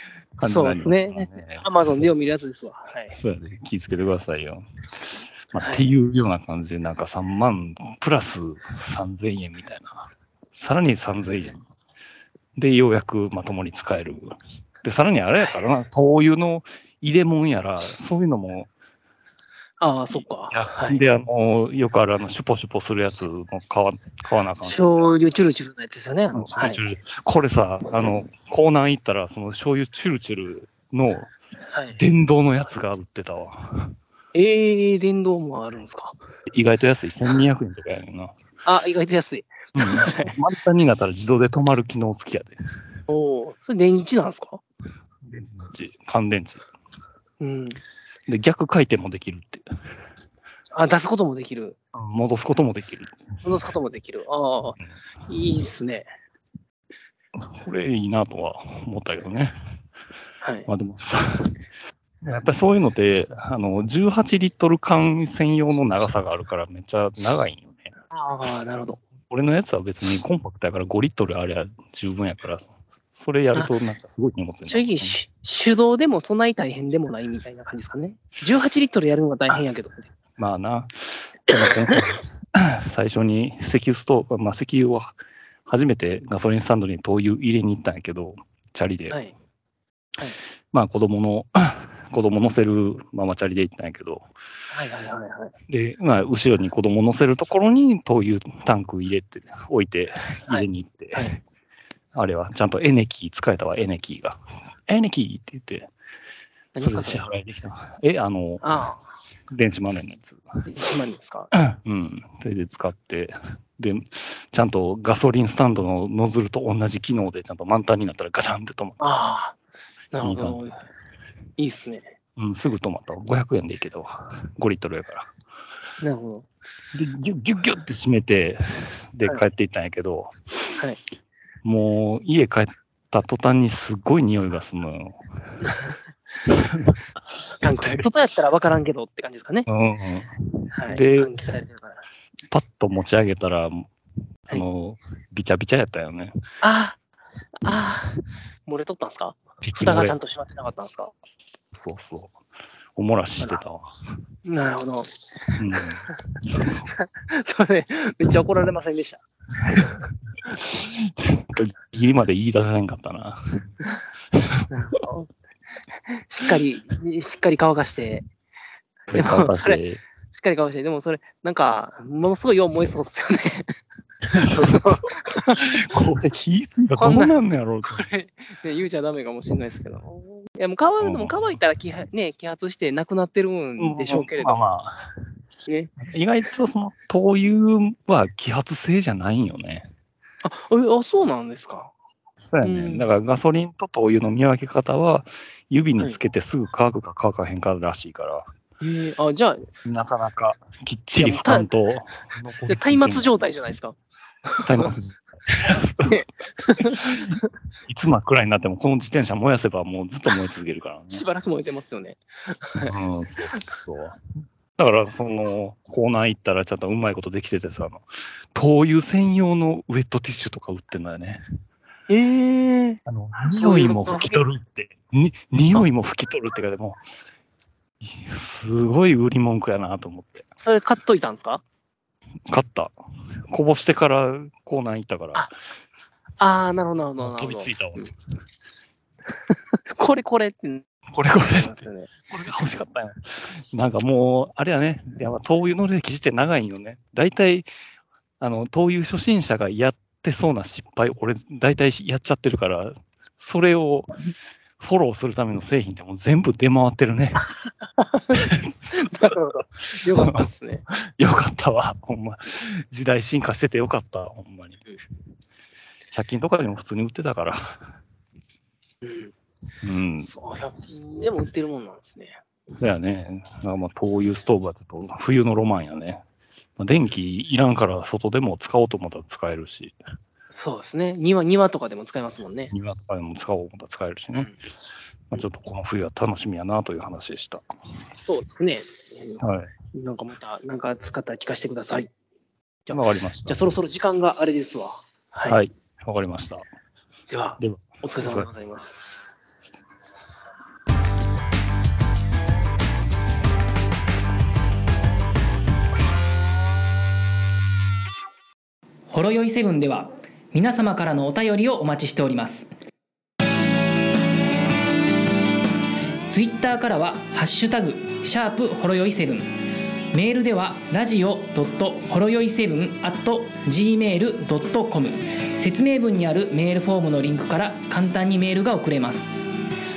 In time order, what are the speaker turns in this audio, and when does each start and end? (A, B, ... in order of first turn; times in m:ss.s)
0:00.4-0:02.1 A
0:00.4-0:03.1 B
0:03.1-0:11.6 A
0:05.6-0:05.9 B
0:12.6-0:18.7 A
0:19.8-0:21.0 B
0:20.5-0:24.9 A
0:24.6-0:26.8 B
0:26.3-0:31.3 A
0:31.7-0:32.0 B
0:32.0-0:34.0 A
0:34.3-0:36.2 B
0:36.5-0:38.3 A
0:38.6-0:40.4 B
0:39.8-0:42.6 A
0:43.1-0:44.6 B
0:45.2-0:46.6 A
0:47.4-0:47.8 B
0:48.3-0:49.7 A
0:50.7-0:51.8 B
0:51.9-0:53.2 A
0:53.4-0:54.8 B
0:55.3-0:56.1 B
0:57.4-0:59.5 A
1:00.4-1:00.7 B
1:00.7-1:01.6 A
1:02.2-1:07.9 A
1:08.1-1:09.0 B
1:09.3-1:15.2 A
1:14.6-1:20.1 B
1:20.4-1:29.2 A
1:21.6-1:22.1 B
1:29.1-1:29.3 B
1:30.7-1:34.2 A
1:34.7-1:35.5 B
1:35.7-1:41.3 A
1:40.5-1:41.4 B
1:42.1-1:45.9 A
1:46.7-1:47.3 B
1:46.8-1:48.6 A
1:48.6-1:49.0 B
1:49.5-1:50.4 A
1:50.7-1:51.5 B
1:51.5-1:59.0 A
1:59.0-1:59.6 B
2:00.1-2:00.8 B
2:00.2-2:00.7 A
2:01.6-2:02.1 B
2:02.4-2:05.3 A
2:06.0-2:06.4 B
2:06.9-2:10.8 A
2:11.6-2:15.8 A
2:16.5-2:18.0 A
2:17.6-2:19.7 B
2:19.7-2:20.4 A
2:20.7-2:22.0 B
2:20.9-2:21.3 A
2:22.5-2:23.9 A
2:24.5-2:26.3 A
2:26.6-2:27.0 B
2:27.6-2:31.1 B
2:29.6-2:30.2 A
2:31.7-2:32.3 A
2:33.0-2:33.9 A
2:34.4-2:35.1 B
2:35.6-2:36.8 A
2:36.9-2:39.9 B
2:39.7-2:39.9 A
2:40.4-2:43.7 A
2:44.3-2:44.6 A
2:44.7-2:45.3 B
2:46.1-2:48.2 B
2:49.1-2:50.0 A
2:49.1-2:53.7 B
2:54.2-2:55.0 A
2:54.4-2:55.6 B
2:55.6-2:58.1 A
2:57.0-3:04.7 B
3:01.0-3:01.5 A
3:03.8-3:05.1 A
3:05.7-3:05.9 B
3:06.1-3:09.9 A
3:10.4-3:11.9 B
3:12.4-3:18.4 A
3:12.6-3:13.0 B
3:18.8-3:19.6 B
3:19.8-3:23.3 A
3:21.2-3:21.7 B
3:22.7-3:24.9 B
3:24.6-3:26.2 A
3:26.0-3:27.4 B
3:26.8-3:27.4 A
3:27.9-3:31.2 A
3:31.1-3:32.9 B
3:32.8-3:34.2 A
3:34.8-3:41.4 A
3:42.1-3:44.4 B
3:43.0-3:47.0 A
3:48.0-3:50.4 A
3:50.6-3:51.6 B
3:52.5-3:52.9 A
3:53.5-3:55.5 A
3:56.4-3:58.1 B
3:57.2-3:58.0 A
3:59.9-4:00.8 B
4:01.1-4:07.7 A
4:01.4-4:02.1 B
4:08.4-4:14.1 A
4:14.8-4:17.4 A
4:18.0-4:20.8 B
4:18.3-4:19.0 A
4:20.1-4:20.4 A
4:21.0-4:24.8 A
4:26.1-4:27.9 A
4:29.0-4:29.3 B
4:29.8-4:30.3 A
4:30.2-4:32.4 B
4:32.7-4:36.2 A
4:36.8-4:40.0 A
4:40.5-4:42.7 B
4:42.7-4:44.5 A
4:45.3-4:47.6 A
4:48.2-4:49.4 B
4:49.4-4:49.7 A
4:49.9-4:52.1 B
4:52.9-4:55.6 B
4:52.9-4:53.7 A
4:55.5-4:56.7 A
4:57.3-4:59.0 B
4:57.6-4:58.5 A
5:09.1-5:12.6 C
5:16.3-5:19.4 C
5:20.1-5:29.3 C